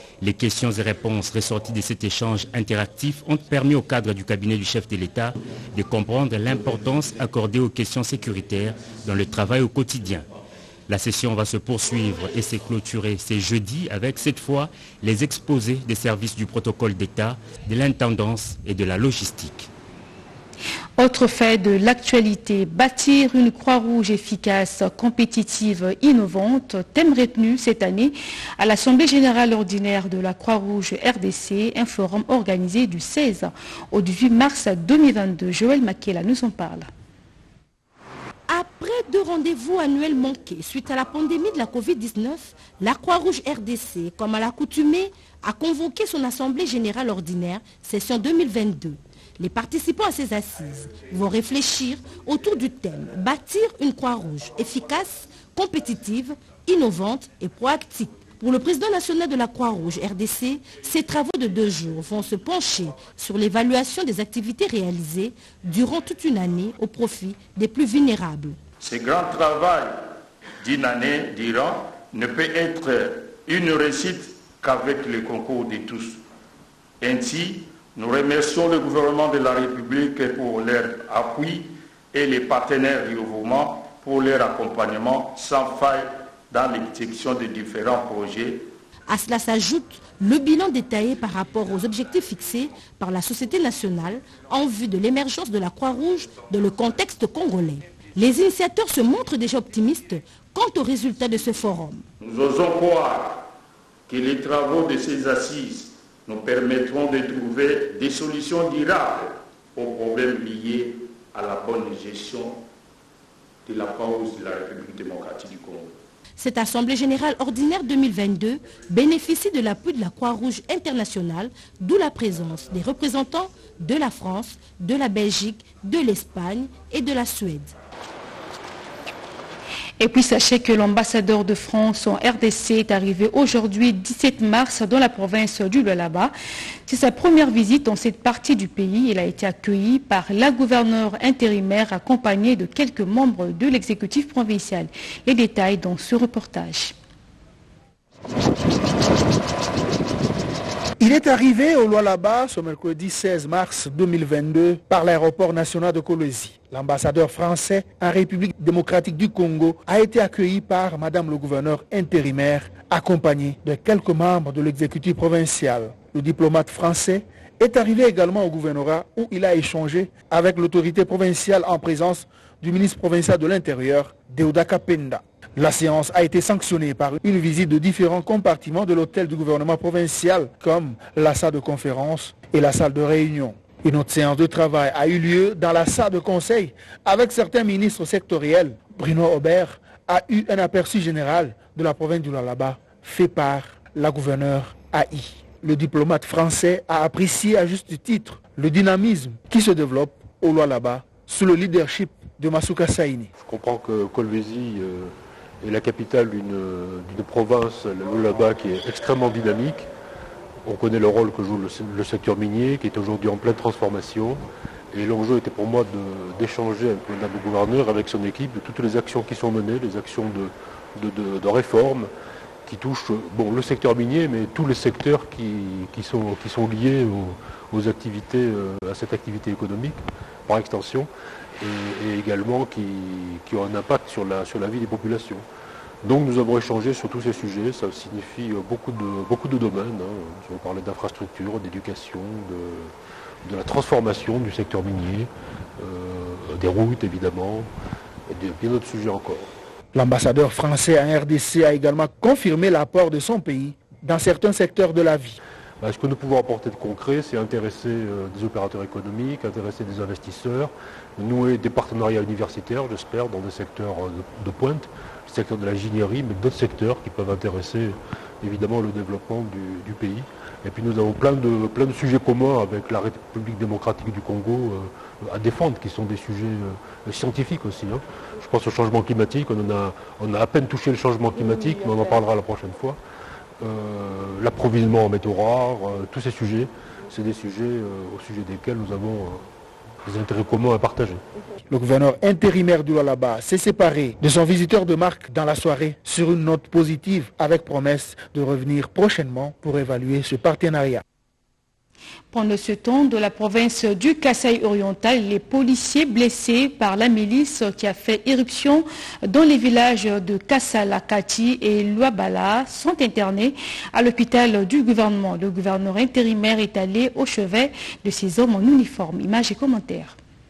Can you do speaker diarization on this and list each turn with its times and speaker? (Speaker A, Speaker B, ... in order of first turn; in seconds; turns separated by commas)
Speaker A: 0.2-10.3, Speaker A: 10.9-19.7, Speaker B: 21.0-36.9, Speaker C: 38.5-68.6, Speaker D: 68.8-76.2, Speaker D: 77.0-88.7, Speaker C: 89.1-102.0, Speaker D: 102.2-103.5, Speaker D: 104.1-112.6, Speaker D: 113.7-115.9, Speaker C: 116.4-127.7, Speaker B: 130.0-136.3, Speaker B: 136.9-146.9, Speaker E: 151.0-203.3, Speaker F: 203.4-209.9, Speaker F: 210.6-222.1, Speaker F: 222.7-235.4, Speaker F: 236.0-242.9, Speaker F: 243.4-247.7, Speaker F: 248.3-249.5, Speaker E: 249.9-255.4, Speaker F: 255.8-283.0, Speaker F: 283.6-289.5, Speaker F: 290.0-291.2, Speaker E: 291.7-301.0, Speaker B: 302.3-320.1